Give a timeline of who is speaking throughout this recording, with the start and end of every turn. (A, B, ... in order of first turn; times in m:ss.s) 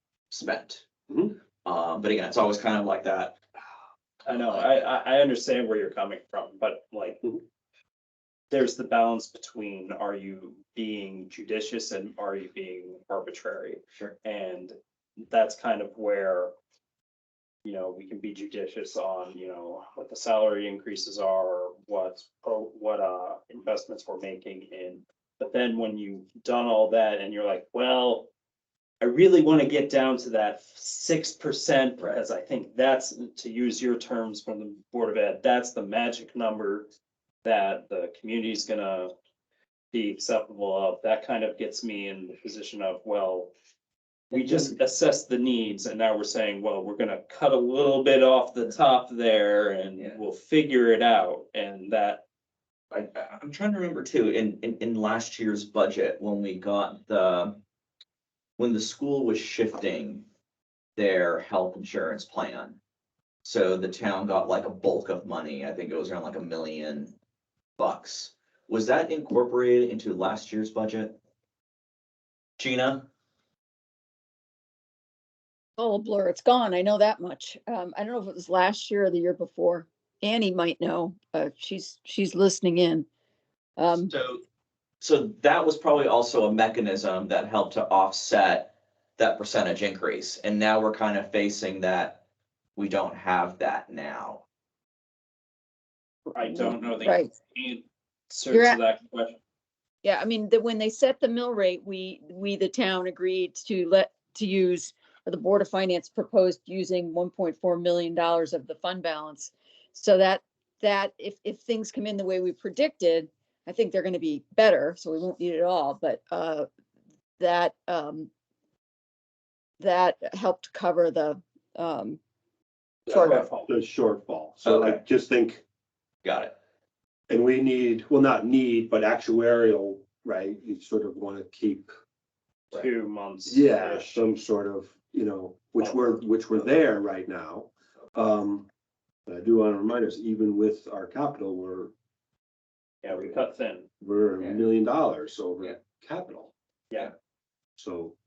0:00.3-0:00.8 A
0:01.1-0:01.4 B
0:01.6-0:03.4 A
0:04.2-0:04.7 A
0:04.3-0:07.2 C
0:08.5-0:16.5 C
0:17.6-0:28.3 C
0:29.0-0:36.9 C
0:37.4-0:39.1 C
0:39.9-0:43.5 C
0:44.3-0:52.2 C
0:52.9-0:57.6 A
0:58.6-1:00.2 A
1:01.0-1:02.8 A
1:03.4-1:07.2 A
1:07.8-1:11.2 A
1:12.6-1:13.1 A
1:15.8-1:23.1 D
1:23.8-1:24.1 D
1:23.9-1:24.4 A
1:25.0-1:32.2 A
1:32.8-1:34.4 A
1:36.3-1:39.4 C
1:36.4-1:37.3 D
1:38.5-1:38.8 D
1:40.0-1:56.7 D
1:57.4-1:58.3 D
1:59.8-2:02.2 D
2:03.1-2:03.7 C
2:03.1-2:03.5 D
2:03.2-2:05.6 B
2:04.6-2:05.0 A
2:06.2-2:06.5 A
2:07.3-2:11.9 B
2:12.7-2:14.4 C
2:13.5-2:18.7 B
2:15.8-2:16.2 C
2:19.3-2:21.9 B
2:23.0-2:23.9 C
2:24.0-2:26.5 B
2:27.8-2:28.2 B